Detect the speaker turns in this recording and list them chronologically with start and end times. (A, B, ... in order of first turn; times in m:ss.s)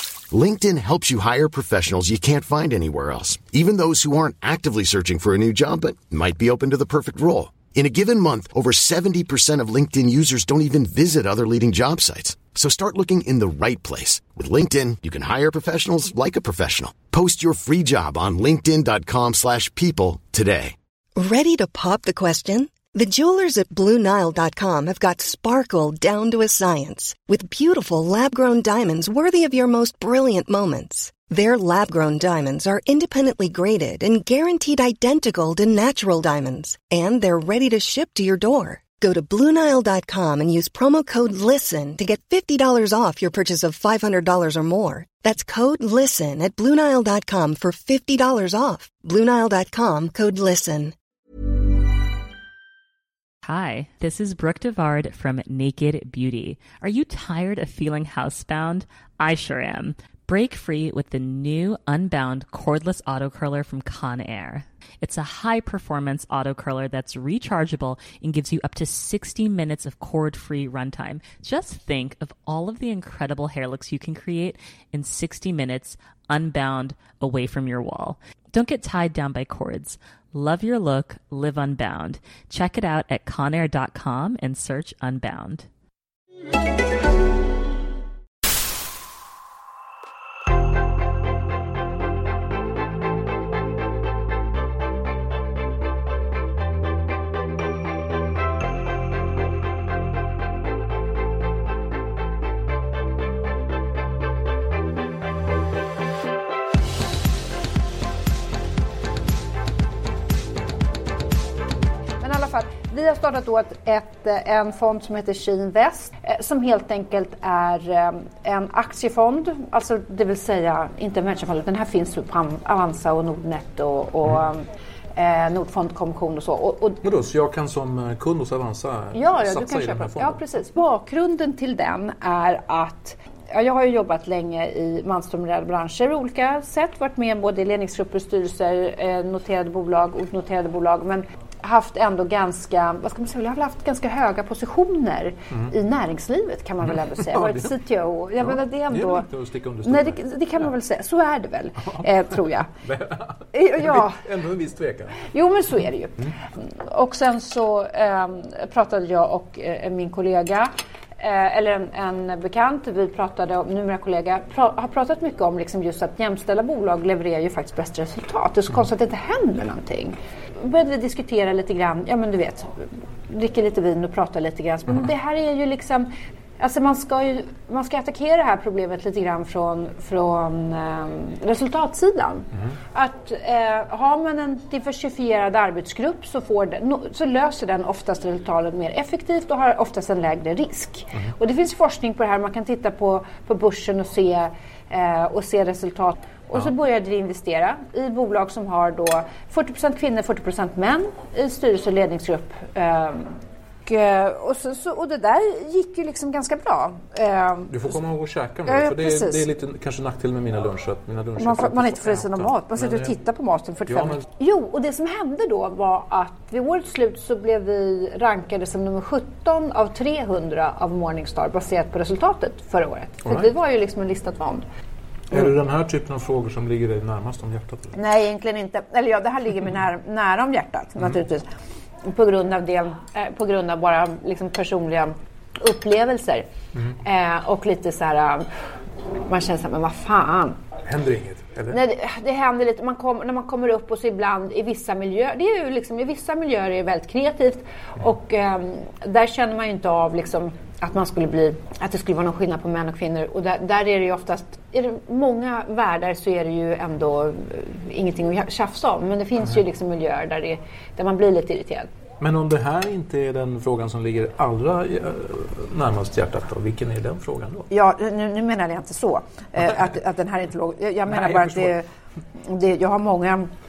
0:00.3-0:20.7 A
0:21.2-0:50.9 B
0:53.4-1:25.7 C
1:52.2-2:04.6 D
2:05.2-2:07.0 D
2:07.0-2:10.4 E
2:09.1-2:29.2 D
2:26.8-2:27.8 E
2:28.4-2:30.2 E
2:29.8-2:32.7 D
2:32.8-2:35.3 E
2:33.5-2:34.2 D
2:35.2-3:27.9 D
3:27.7-3:33.1 E
3:28.7-3:29.4 D
3:31.4-3:44.6 D
3:33.9-3:34.2 E
3:45.3-3:47.9 E
3:47.9-3:51.5 D
3:52.0-3:56.4 D
3:57.0-3:58.4 D
3:59.2-4:00.6 D
4:00.8-4:01.8 E
4:01.7-4:21.9 D
4:22.2-4:27.7 E
4:27.7-4:33.5 D
4:31.1-4:31.7 E